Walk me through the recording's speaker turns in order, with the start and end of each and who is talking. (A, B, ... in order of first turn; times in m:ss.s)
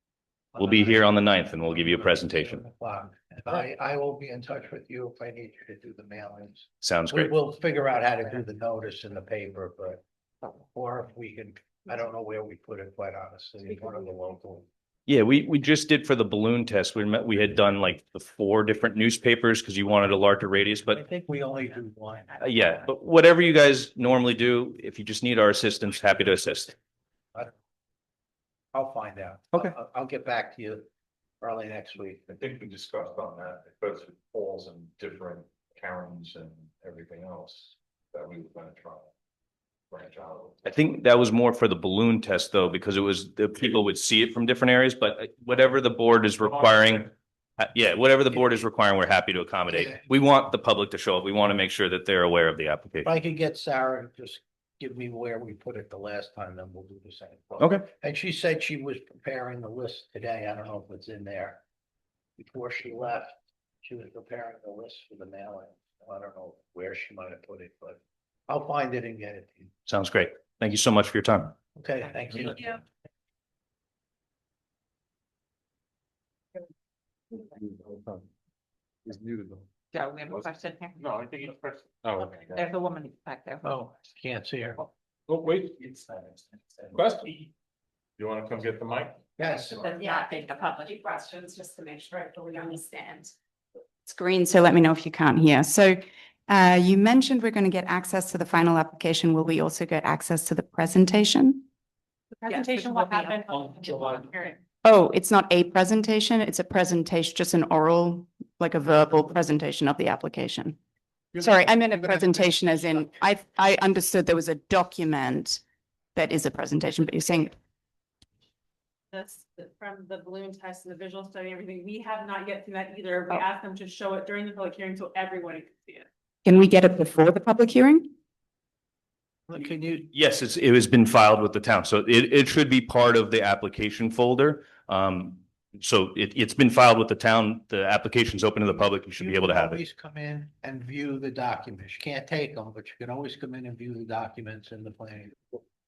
0:00.5-0:10.0 A
0:00.6-0:02.6 B
0:06.8-0:07.3 B
0:10.7-0:14.7 A
0:15.1-0:21.0 B
0:20.9-0:22.4 A
0:22.4-0:26.8 B
0:28.7-0:30.9 A
0:31.4-0:32.2 A
0:32.3-0:39.1 C
0:39.9-0:40.8 C
0:40.6-0:53.1 B
0:49.7-0:50.0 A
0:53.0-1:01.6 A
0:57.6-0:57.9 B
1:02.4-1:09.7 A
1:09.9-1:11.6 B
1:11.8-1:12.8 A
1:17.6-1:18.3 C
1:19.1-1:19.7 C
1:19.9-1:21.1 D
1:20.3-1:22.7 C
1:22.2-1:23.7 D
1:23.6-1:24.8 A
1:25.3-1:27.5 C
1:28.2-1:29.2 C
1:29.4-1:29.9 A
1:29.8-1:31.1 D
1:30.0-1:33.3 E
1:34.1-1:41.6 E
1:42.4-1:44.6 F
1:42.4-1:44.2 D
1:44.8-1:50.8 E
1:51.4-1:55.6 E
1:56.2-1:57.5 E
1:59.1-2:06.1 F
2:06.4-2:08.1 E
2:09.5-2:10.1 A
2:10.1-2:19.8 B
2:19.2-2:25.6 A